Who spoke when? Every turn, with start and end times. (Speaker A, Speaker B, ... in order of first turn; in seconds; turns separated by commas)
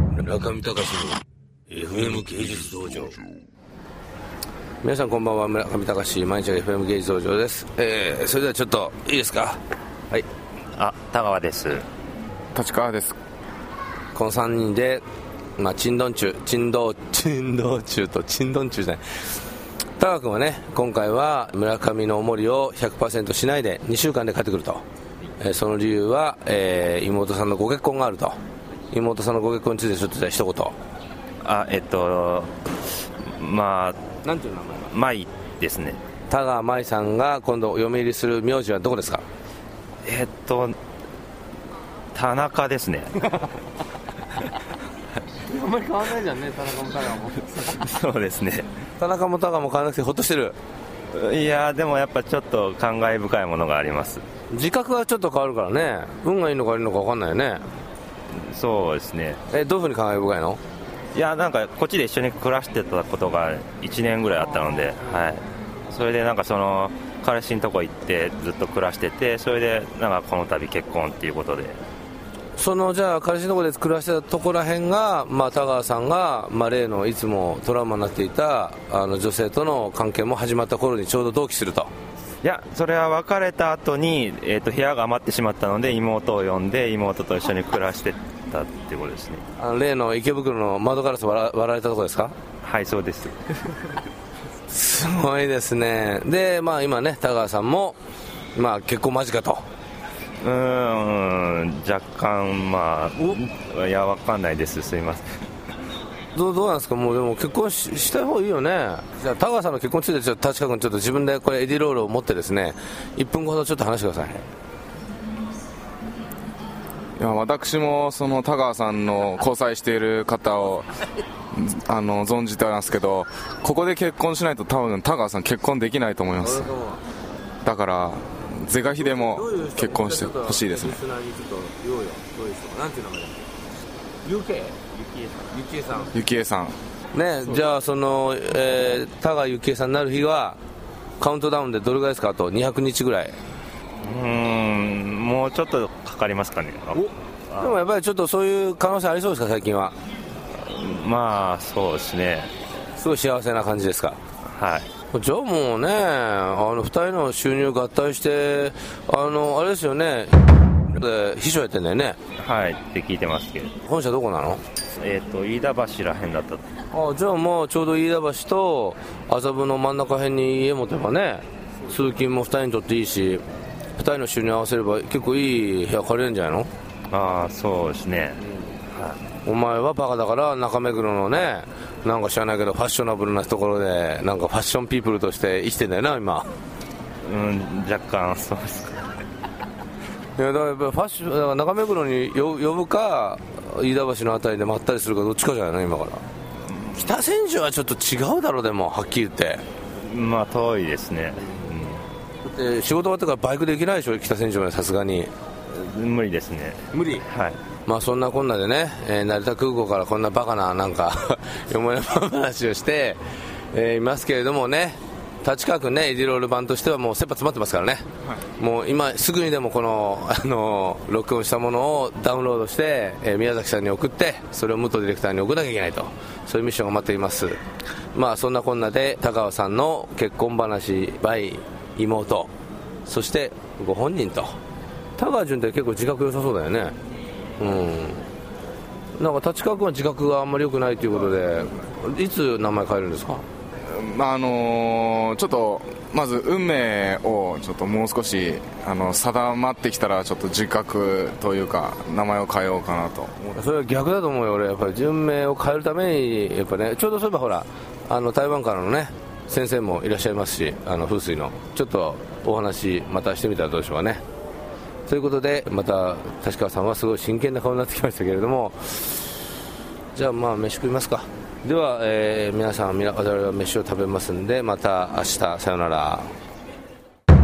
Speaker A: 0.1-3.2, Speaker A: 4.8-10.3, Speaker B: 10.8-11.9, Speaker C: 12.5-13.2, Speaker A: 14.1-15.0, Speaker A: 15.6-19.0, Speaker A: 20.0-24.8, Speaker A: 25.4-28.4, Speaker A: 28.9-30.8, Speaker B: 31.4-34.0, Speaker A: 34.2-34.9, Speaker B: 34.8-36.0, Speaker A: 36.3-39.2, Speaker B: 40.0-40.8, Speaker B: 42.1-43.2, Speaker A: 45.4-47.6, Speaker B: 47.5-48.7, Speaker A: 49.0-50.6, Speaker B: 51.1-54.2, Speaker A: 54.5-57.6, Speaker B: 58.3-59.4, Speaker A: 59.5-60.6, Speaker B: 61.1-71.8, Speaker A: 72.6-81.9, Speaker B: 82.4-89.4, Speaker A: 89.6-92.3, Speaker B: 92.6-93.5, Speaker A: 94.7-98.0, Speaker A: 98.5-99.6, Speaker B: 100.4-105.3, Speaker A: 106.3-114.5, Speaker C: 117.2-120.9, Speaker C: 121.5-126.7, Speaker A: 126.4-127.0, Speaker C: 127.6-131.0, Speaker A: 128.9-133.5, Speaker A: 134.2-136.1, Speaker B: 135.0-135.3, Speaker C: 136.1-136.8, Speaker A: 137.1-140.6, Speaker A: 141.2-143.4, Speaker B: 144.0-147.8, Speaker A: 147.0-150.0, Speaker B: 150.6-152.5, Speaker A: 153.0-154.2, Speaker B: 154.5-154.9, Speaker A: 155.1-162.2, Speaker B: 162.4-163.7, Speaker A: 163.8-164.6, Speaker B: 165.0-166.6, Speaker A: 166.9-173.4, Speaker A: 174.0-176.7, Speaker B: 177.1-179.2, Speaker A: 179.4-186.5, Speaker B: 187.2-189.1, Speaker A: 190.4-196.2, Speaker A: 196.9-199.6, Speaker B: 200.0-202.0, Speaker A: 202.4-205.3, Speaker B: 205.7-207.6, Speaker A: 206.9-207.2, Speaker A: 207.9-213.2, Speaker A: 213.7-218.1, Speaker A: 218.6-227.6, Speaker A: 228.2-232.5, Speaker A: 233.1-234.6, Speaker A: 235.2-236.9, Speaker A: 237.6-238.3, Speaker A: 239.2-243.4, Speaker C: 243.9-253.6, Speaker A: 253.6-264.2, Speaker A: 265.1-269.2, Speaker A: 270.1-276.3